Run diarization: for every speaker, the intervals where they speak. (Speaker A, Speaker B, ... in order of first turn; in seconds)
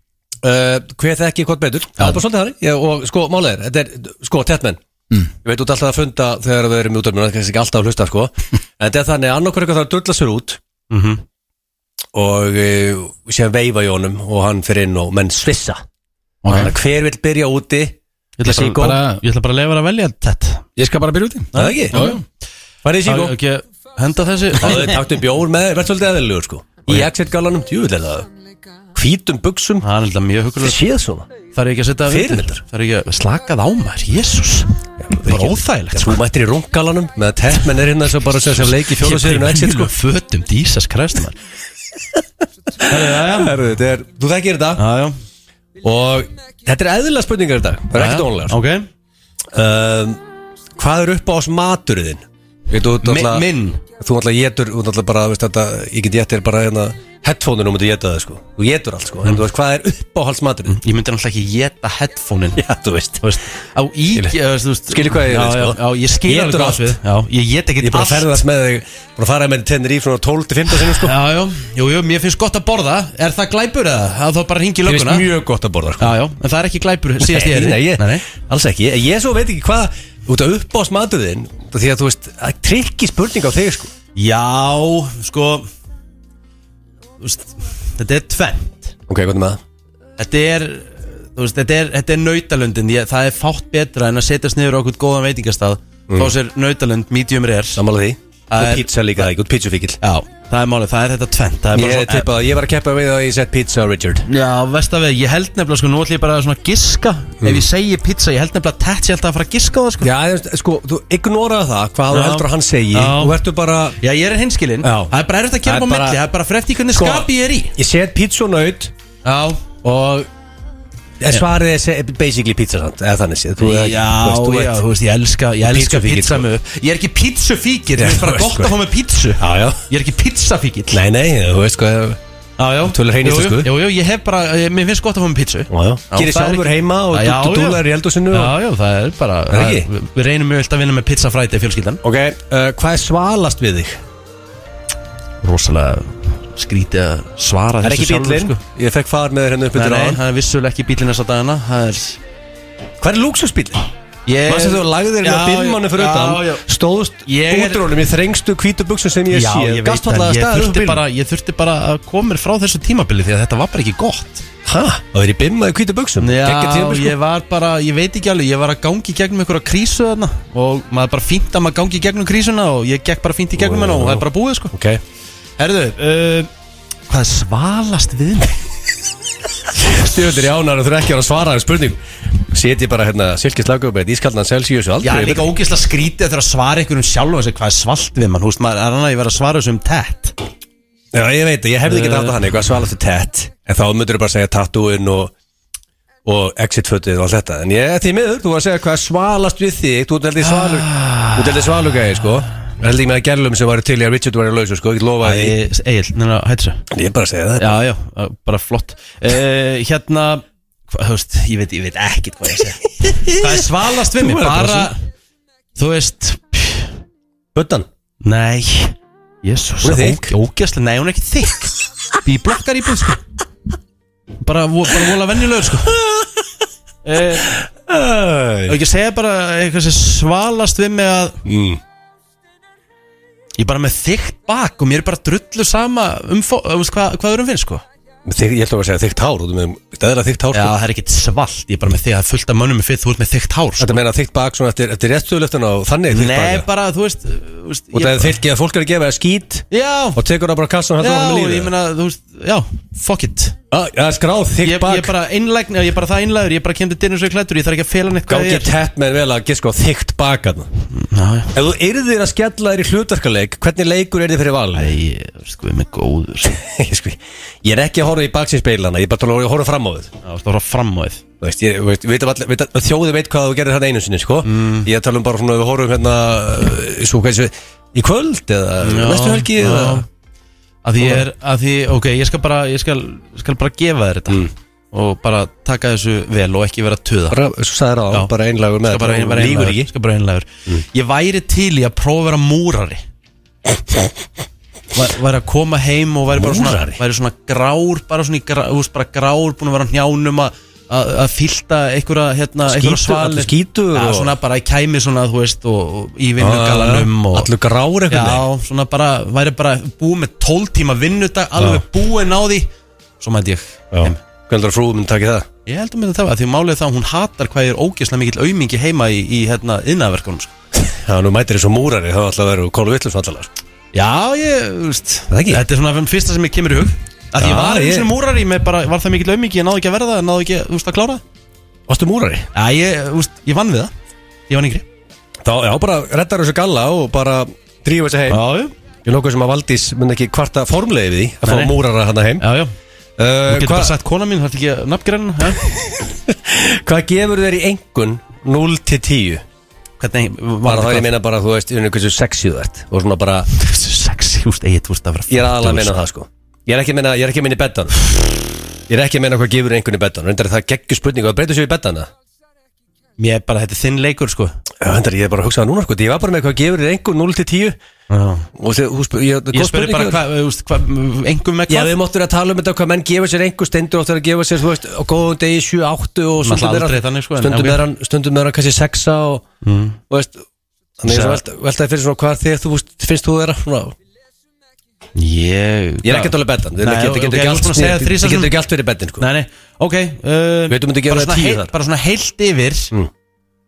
Speaker A: 0.4-4.8, 5.4-10.6, 12.1-15.8, 16.5-18.0, 18.5-19.0, 21.6-22.1, 22.8-23.4, 24.6-28.3, 28.9-29.9, 30.6-31.3, 32.1-32.6, 35.0-39.9, 42.8-44.8, 45.8-48.6, 49.5-50.2, 50.8-53.5, 54.0-60.8, 62.6-63.3, 64.9-67.0, 67.8-71.2, 74.8-76.2, 77.2-83.9, 89.1-89.6, 96.1-96.3, 97.8-100.0, 101.7-104.2, 110.0-114.0, 114.8-116.2, 116.9-118.9, 119.8-120.3, 121.2-124.8, 125.6-126.5, 128.0-128.8, 129.4-129.8, 130.9-132.2, 132.8-133.7, 135.7-138.6, 139.5-139.9, 142.0-144.0, 147.8-150.2, 153.0-153.9, 154.5-161.1, 164.7-167.2, 173.6-175.0, 179.8-185.5, 191.1-195.3, 196.2-205.6, 206.9-207.8, 213.1-214.9, 217.6-217.9, 219.8-220.3, 227.4-228.8, 231.4-231.8, 238.3-240.8, 243.8-246.7, 247.9-251.7, 253.7-255.1, 258.3-260.7, 261.5-265.0, 266.4-270.1, 271.4-280.1, 287.3-289.9, 296.3-297.0, 302.6-304.4, 306.4-308.5, 311.6-311.8, 313.9-315.5, 320.7-323.5, 325.3-325.6, 327.4-328.1, 331.9-332.5, 335.4-338.4, 339.1-342.5, 343.2-343.9, 345.8-349.4, 350.6-353.5, 355.3-362.1, 364.8-367.8, 368.6-370.2, 371.7-379.5, 380.1-380.4, 381.0-384.0, 386.0-389.3, 390.7-391.7
Speaker B: 10.9-11.2, 18.4-20.6, 21.5-22.2, 23.0-25.0, 29.8-30.8, 31.5-36.2, 38.5-41.4, 42.8-43.5, 44.8-45.1, 47.9-48.9, 53.0-53.8, 60.7-62.6, 63.2-68.4, 70.9-75.3, 76.0-78.3, 84.2-85.7, 87.2-88.9, 90.2-97.8, 98.5-99.3, 100.0-102.3, 104.3-110.1, 112.1-113.4, 114.0-117.8, 119.2-119.6, 123.6-131.0, 132.6-142.0, 145.4-148.6, 149.7-152.2, 154.3-156.7, 157.3-157.9, 159.3-164.4, 166.2-174.7, 175.6-176.5, 177.1-178.6, 185.0-190.4, 191.9-192.3, 200.6-201.4, 205.2-206.8, 207.6-215.0, 215.8-216.9, 218.2-223.2, 224.4-226.0, 227.1-227.5, 228.7-231.4, 233.6-237.8, 240.5-244.0, 246.1-248.4, 249.7-250.2, 251.0-253.6, 254.6-258.7, 260.9-261.5, 264.8-266.6, 270.2-271.2, 274.4-274.9, 278.8-280.1, 280.8-287.4, 288.8-293.0, 294.9-307.5, 308.1-312.7, 313.2-314.2, 315.7-320.5, 323.9-331.2, 332.5-333.9, 334.5-334.9, 338.3-338.7, 341.4-341.8, 342.4-342.7, 343.5-345.6, 350.0-351.1, 353.5-356.0, 363.2-364.6, 368.1-368.5, 369.5-371.9, 376.4-377.8, 379.6-380.0, 381.1-381.4, 385.2-388.5, 389.2-392.9
Speaker C: 16.4-16.7, 18.5-19.2, 20.8-22.2